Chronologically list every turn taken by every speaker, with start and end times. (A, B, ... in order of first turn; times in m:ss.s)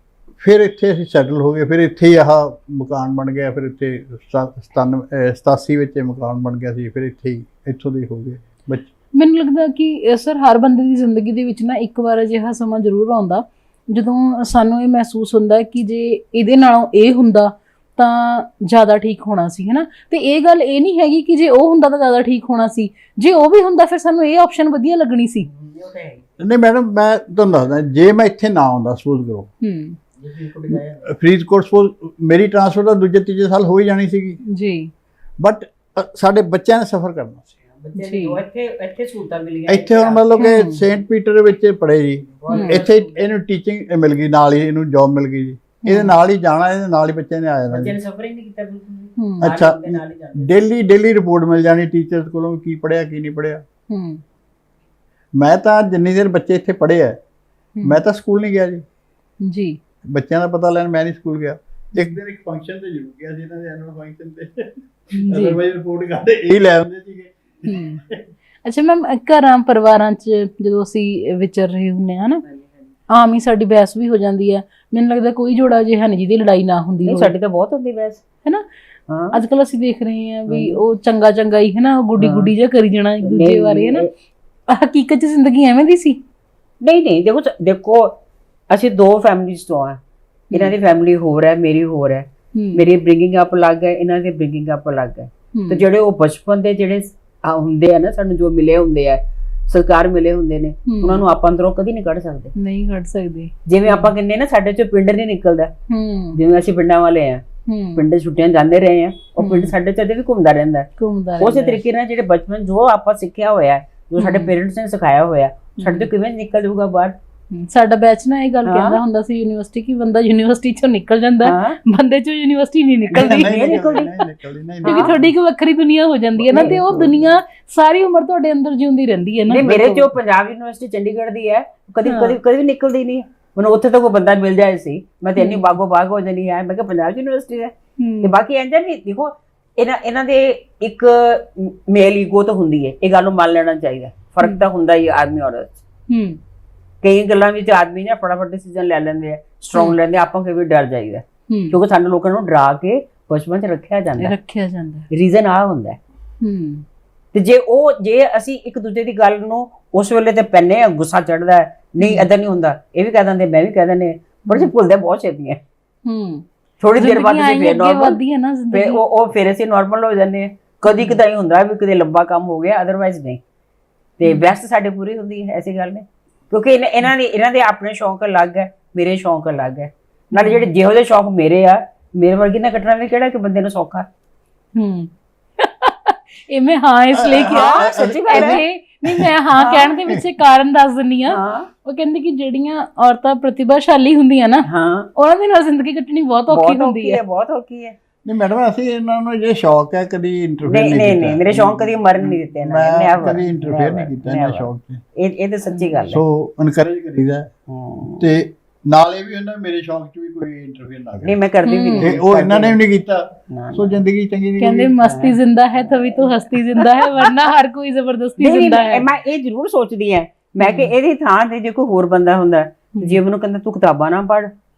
0:00.4-0:08.9 A
0:09.2-0:25.5 B
0:25.4-0:26.3 C
0:26.4-0:29.5 A
0:29.6-0:30.0 B
0:30.2-0:31.1 C
0:30.7-0:34.4 A
0:34.5-0:34.9 B
0:35.4-0:37.5 A
0:37.7-0:40.5 C
0:38.0-0:38.4 B
0:39.7-0:48.0 A
0:40.4-0:40.8 B
0:42.4-0:43.3 C
0:42.5-0:42.8 B
0:45.8-0:46.1 B
0:47.7-0:50.5 C
0:49.2-0:49.4 B
0:49.4-0:53.6 A
0:53.9-0:54.2 B
0:55.4-0:57.2 A
0:57.8-0:58.8 A
0:59.4-0:59.8 B
1:00.0-1:08.2 A
1:05.1-1:05.6 B
1:07.6-1:08.0 B
1:08.6-1:12.4 B
1:12.4-1:12.7 C
1:13.1-1:17.3 B
1:17.0-1:18.2 C
1:19.1-1:19.4 C
1:19.3-1:24.0 B
1:20.5-1:20.8 C
1:22.2-1:22.5 C
1:23.2-1:24.1 C
1:24.7-1:26.2 B
1:26.8-1:28.2 C
1:28.7-1:30.0 C
1:30.5-1:42.5 C
1:32.5-1:32.8 B
1:35.5-1:35.8 B
1:40.9-1:41.2 B
1:42.5-1:44.1 B
1:43.6-1:45.7 C
1:45.9-1:46.4 B
1:46.3-1:50.9 C
1:47.7-1:48.0 B
1:49.4-1:49.7 B
1:51.0-1:51.8 B
1:51.4-1:57.2 C
1:54.2-1:54.5 B
1:55.8-1:56.1 B
1:57.5-2:04.3 B
1:58.6-1:59.0 C
2:01.4-2:01.8 C
2:03.1-2:04.1 C
2:03.1-2:05.3 A
2:04.8-2:05.1 C
2:04.8-2:09.7 B
2:06.4-2:07.3 A
2:09.5-2:25.8 C
2:09.5-2:10.1 A
2:12.0-2:12.4 B
2:15.4-2:15.8 B
2:18.0-2:18.4 B
2:26.1-2:26.4 B
2:27.0-2:34.3 C
2:31.5-2:31.8 B
2:34.2-2:35.1 B
2:35.1-2:36.0 C
2:36.4-2:36.8 B
2:37.3-2:45.6 C
2:42.0-2:42.3 B
2:46.0-2:46.4 B
2:46.8-2:48.2 C
2:47.0-2:49.0 B
2:48.7-2:53.4 C
2:50.9-2:51.2 B
2:54.2-3:04.0 C
2:54.2-2:54.5 B
3:00.3-3:00.6 B
3:04.8-3:17.2 B
3:07.1-3:10.2 A
3:07.3-3:08.6 C
3:09.6-3:09.8 C
3:11.2-3:11.7 C
3:14.6-3:15.1 C
3:16.5-3:17.9 C
3:18.2-3:25.0 A
3:20.6-3:26.2 C
3:26.1-3:27.5 A
3:27.7-3:28.4 C
3:28.2-3:31.4 A
3:31.2-3:32.8 C
3:31.6-3:32.1 B
3:32.0-3:35.0 A
3:33.5-3:34.0 C
3:34.6-3:39.1 B
3:35.0-3:37.3 C
3:38.4-3:44.5 C
3:40.6-3:40.9 B